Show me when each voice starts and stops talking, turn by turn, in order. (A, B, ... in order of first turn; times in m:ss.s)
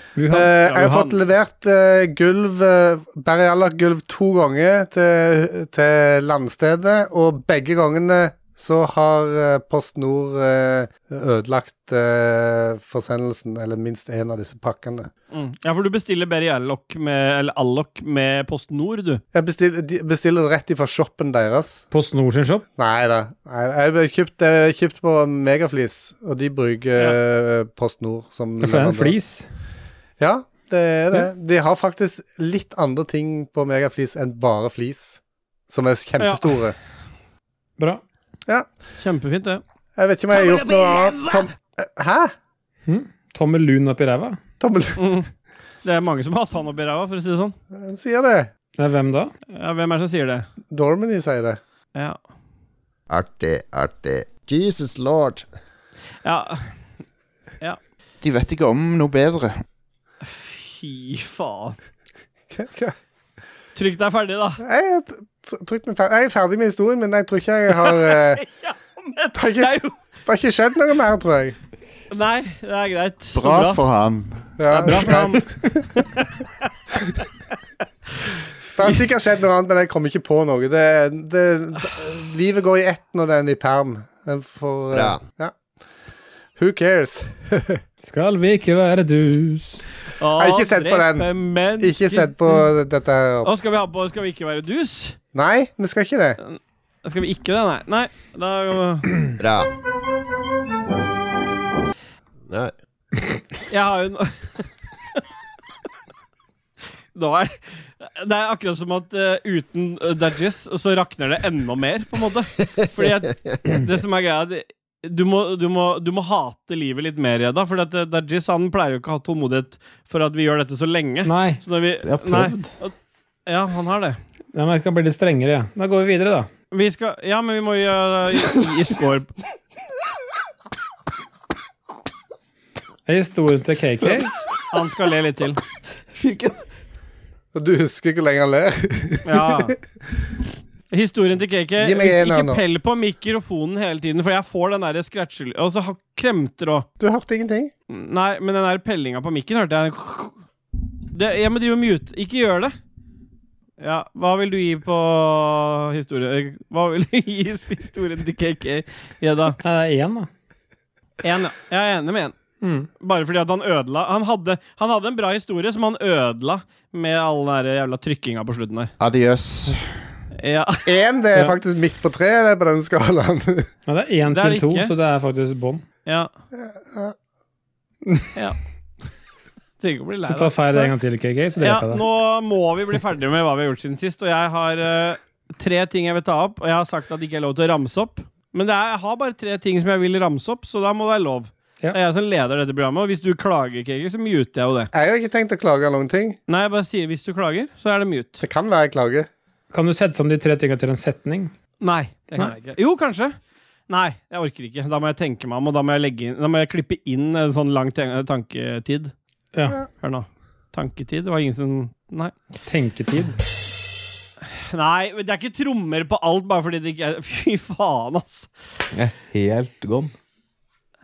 0:00.2-0:00.5 A
0:00.3-0:15.1 B
0:00.6-0:01.2 C
0:15.3-0:19.2 C
0:19.3-0:21.8 B
0:21.9-0:22.6 A
0:22.8-0:29.2 B
0:28.6-0:29.4 A
0:30.2-0:36.8 B
0:36.2-0:36.6 C
0:39.0-0:39.6 C
0:40.0-0:42.3 B
0:42.9-0:44.4 A
0:44.6-0:45.0 B
0:45.0-0:45.3 C
0:45.8-0:47.5 C
0:47.7-0:48.5 B
0:48.8-0:49.3 A
0:49.5-0:50.5 C
0:50.7-0:51.6 B
0:53.1-0:55.5 D
0:56.2-0:56.7 C
0:58.2-0:59.6 E
1:00.2-1:01.8 C
1:02.5-1:02.9 B
1:03.7-1:04.6 C
1:04.6-1:08.4 B
1:07.8-1:09.9 C
1:09.3-1:11.6 B
1:12.1-1:13.8 C
1:13.3-1:14.5 E
1:14.6-1:15.8 B
1:14.7-1:15.4 C
1:16.0-1:16.6 C
1:18.7-1:25.5 B
1:24.9-1:25.2 D
1:26.6-1:27.8 B
1:28.0-1:29.8 A
1:30.2-1:32.6 C
1:30.4-1:33.5 B
1:33.4-1:35.2 C
1:35.3-1:36.4 B
1:36.4-1:39.1 C
1:39.4-1:39.7 D
1:42.5-1:42.7 D
1:43.7-1:44.6 C
1:47.1-2:02.9 C
1:53.2-1:53.8 D
2:01.2-2:01.6 A
2:02.0-2:02.7 F
2:03.5-2:04.2 C
2:04.5-2:06.5 A
2:06.7-2:09.3 C
2:13.0-2:14.3 A
2:14.7-2:15.6 C
2:16.1-2:16.6 F
2:17.5-2:19.7 B
2:19.2-2:19.7 C
2:20.9-2:26.9 C
2:21.8-2:22.6 B
2:27.0-2:27.7 B
2:27.9-2:30.4 C
2:31.1-2:32.7 C
2:33.8-2:39.6 C
2:39.6-2:40.3 A
2:41.2-2:42.4 C
2:42.6-2:42.9 A
2:43.0-2:48.9 C
2:49.0-2:50.0 E
2:50.4-2:50.9 C
2:50.8-2:53.7 B
2:53.9-2:55.8 A
2:54.3-2:54.9 C
2:56.0-2:56.3 C
2:56.5-2:57.1 B
2:59.8-3:00.5 C
3:00.3-3:02.0 A
3:01.6-3:14.9 C
3:14.9-3:16.4 B
3:16.5-3:18.4 C
3:18.4-3:19.3 B
3:19.7-3:21.5 A
3:21.8-3:23.4 C
3:23.9-3:29.1 C
3:29.5-3:29.8 A
3:30.0-3:32.3 C
3:32.7-3:33.4 A
3:34.7-3:38.5 C
3:38.9-3:40.1 F